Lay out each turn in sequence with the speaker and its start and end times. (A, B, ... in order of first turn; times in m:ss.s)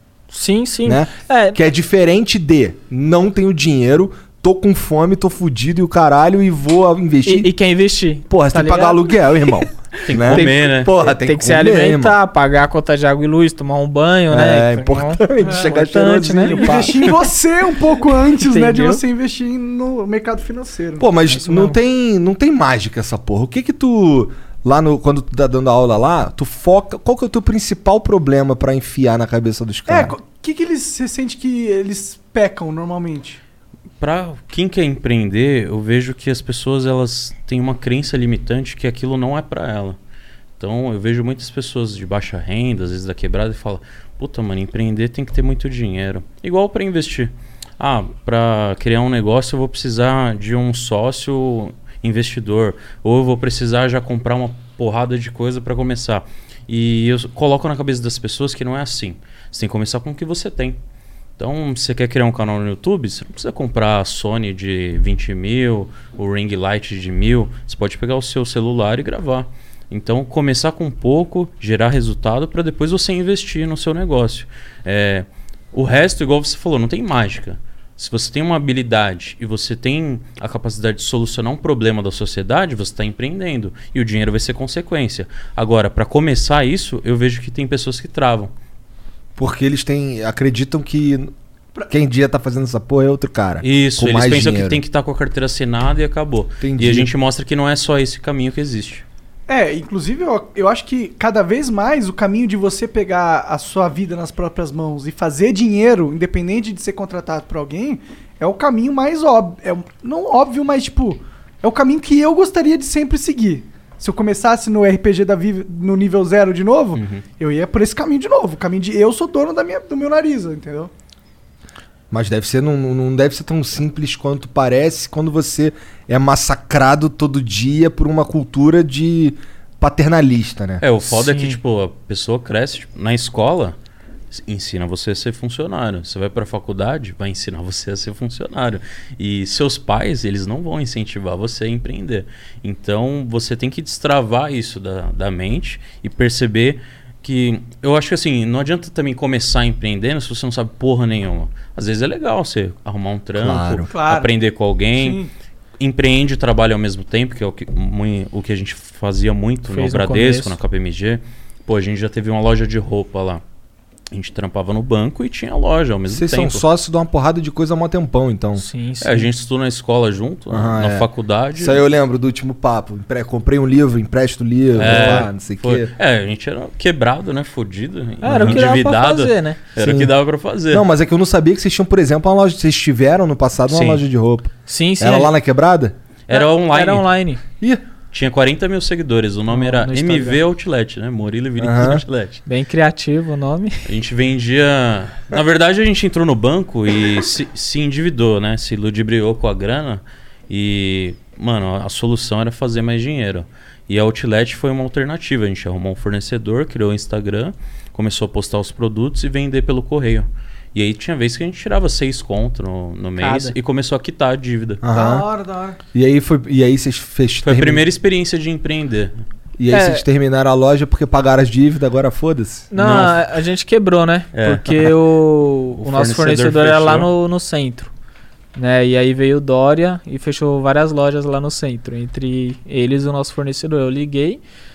0:00.3-0:01.6 A
0:00.8-0:07.5 B
0:07.2-0:09.3 A
0:08.3-0:12.2 B
0:10.0-0:10.9 C
0:10.2-0:17.1 A
0:14.3-0:17.0 B
0:15.4-0:15.7 D
0:16.4-0:21.1 D
0:18.4-0:19.0 A
0:21.0-0:30.2 B
0:21.3-0:21.8 A
0:29.9-0:33.4 D
0:34.0-0:40.0 C
0:40.6-1:00.8 C
1:01.4-1:28.5 C
1:29.4-1:31.3 B
1:31.9-1:34.8 B
1:33.6-1:39.0 C
1:36.6-1:37.1 B
1:39.5-2:00.9 D
1:56.9-1:57.2 C
2:02.1-2:11.3 B
2:10.8-2:13.8 C
2:14.3-2:35.2 C
2:33.4-2:33.9 B
2:33.9-2:34.3 D
2:34.9-2:35.3 D
2:35.8-2:43.4 C
2:39.7-2:40.5 A
2:44.1-2:46.6 C
2:46.1-2:48.6 B
2:48.6-2:49.3 A
2:49.0-2:51.8 C
2:50.5-2:55.9 B
2:54.8-3:00.8 C
2:58.2-2:59.6 A
2:58.2-2:58.7 B
2:59.8-3:00.1 B
3:00.7-3:06.0 B
3:03.7-3:04.0 C
3:04.7-3:05.3 A
3:06.3-3:07.1 C
3:06.3-3:07.4 A
3:08.1-3:12.4 C
3:09.5-3:10.4 A
3:11.6-3:12.0 B
3:12.5-3:13.8 A
3:13.8-3:34.8 C
3:33.2-3:33.5 A
3:34.8-3:35.3 B
3:34.9-3:35.8 D
3:35.9-3:37.9 B
3:37.4-3:39.1 C
3:39.6-3:42.7 B
3:39.7-3:40.0 A
3:42.7-3:47.9 A
3:42.8-3:43.2 C
3:44.3-3:44.9 C
3:45.8-3:47.1 C
3:48.6-3:54.4 A